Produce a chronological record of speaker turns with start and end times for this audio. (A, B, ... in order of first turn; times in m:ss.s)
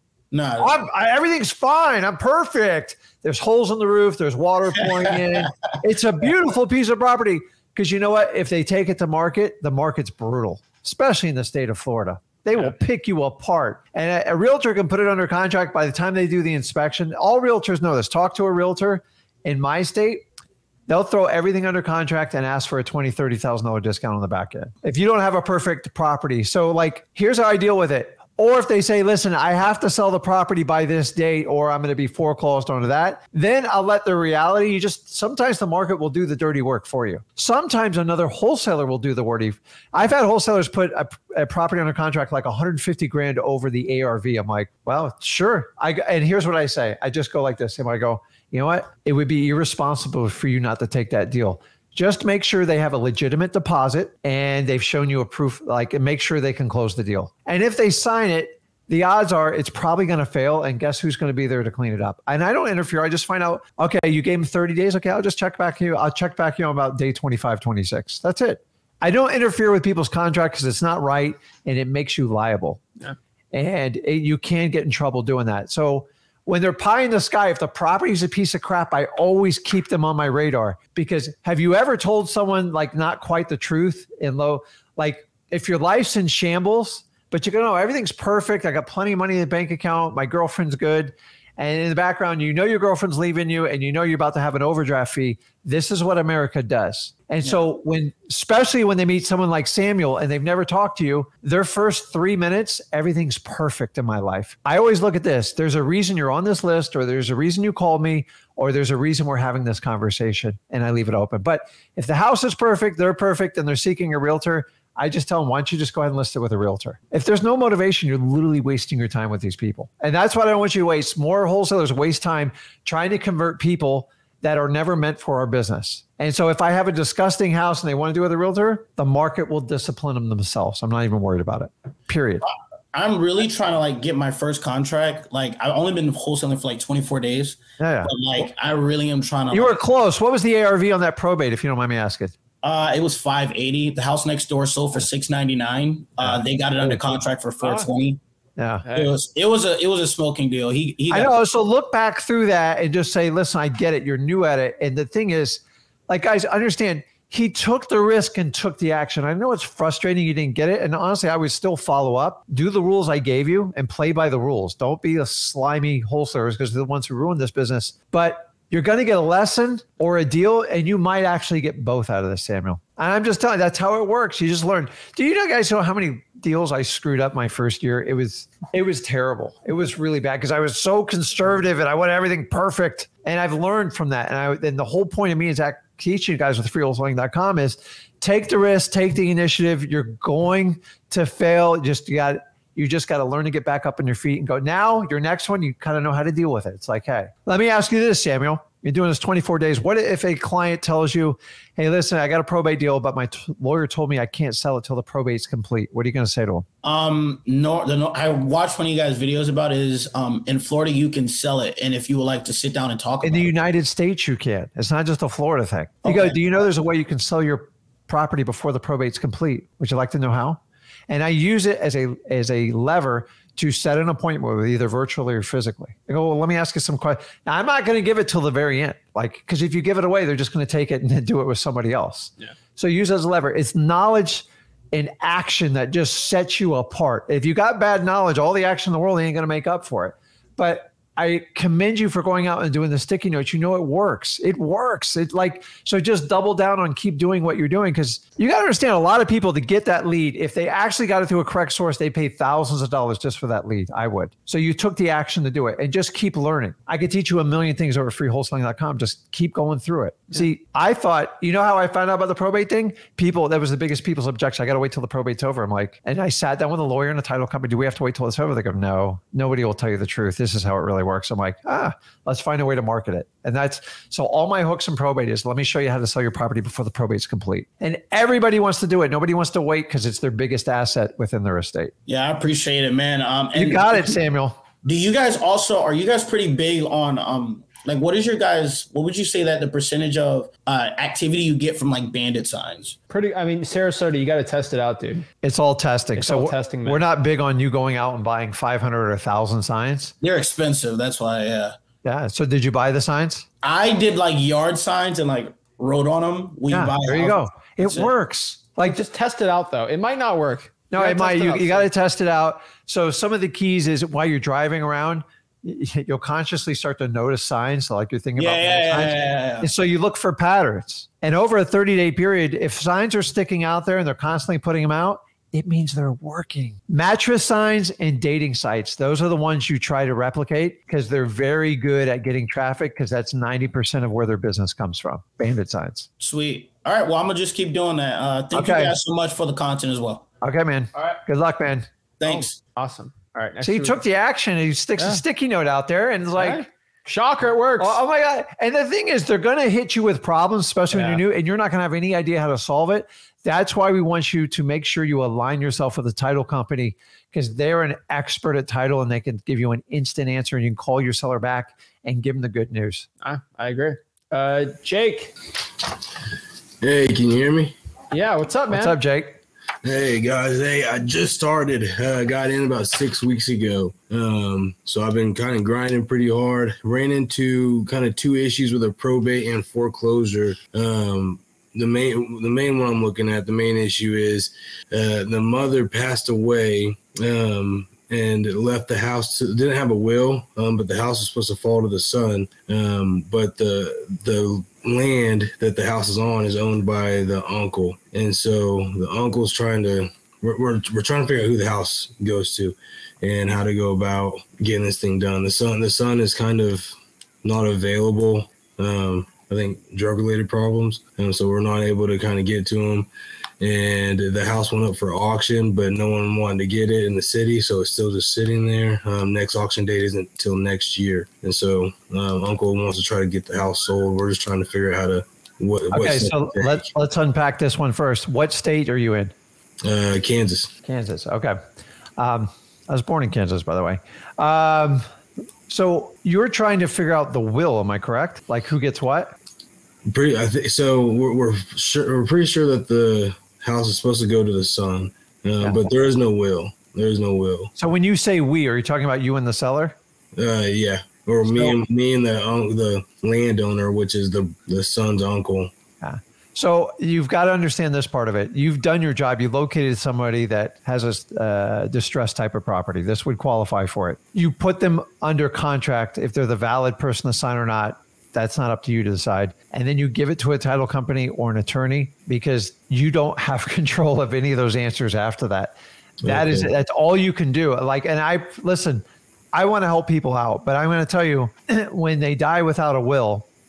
0:00.3-0:00.8 A
0:00.6-0:20.2 B
0:04.8-0:05.5 A
0:20.9-1:12.8 B
1:13.5-2:12.4 B
2:12.4-2:19.8 A
2:17.8-2:18.1 B
2:19.5-2:22.3 B
2:22.6-2:28.2 A
2:26.2-2:27.2 B
2:28.6-2:28.8 B
2:28.8-2:29.1 C
2:28.9-2:31.4 A
2:31.1-3:26.6 B
3:26.8-3:33.6 A
3:33.2-4:41.9 B
3:36.0-3:36.4 A
4:42.0-4:44.2 A
4:43.5-4:44.6 B
4:44.8-4:53.0 A
4:53.1-4:55.2 C
4:55.4-5:00.1 B
4:56.2-4:57.0 C
5:00.2-5:01.7 A
5:02.0-5:03.4 B
5:03.6-5:08.1 A
5:06.7-5:09.0 B
5:08.8-5:11.9 C
5:10.9-5:36.1 B
5:18.4-5:19.7 A
5:36.2-5:40.2 A
5:38.5-5:39.0 B
5:40.4-5:41.9 B
5:42.2-5:42.6 A
5:42.2-5:44.0 C
5:43.6-5:46.7 B
5:45.0-5:45.2 C
5:46.4-5:48.0 C
5:47.8-6:03.0 B
5:50.9-5:51.2 C
6:03.2-6:05.3 C
6:06.8-6:07.8 D
6:08.1-6:09.0 C
6:08.7-6:09.4 B
6:09.8-6:53.1 D
6:53.6-7:06.8 D
7:05.9-7:09.3 B
7:09.8-7:10.7 D
7:10.8-7:11.6 B
7:12.2-7:15.0 B
7:15.7-7:19.3 B
7:20.0-7:27.7 D
7:27.8-7:29.9 B
7:30.4-7:35.7 D
7:31.4-7:31.8 B
7:36.0-7:59.0 B
7:56.2-7:56.7 D
7:59.5-8:03.4 B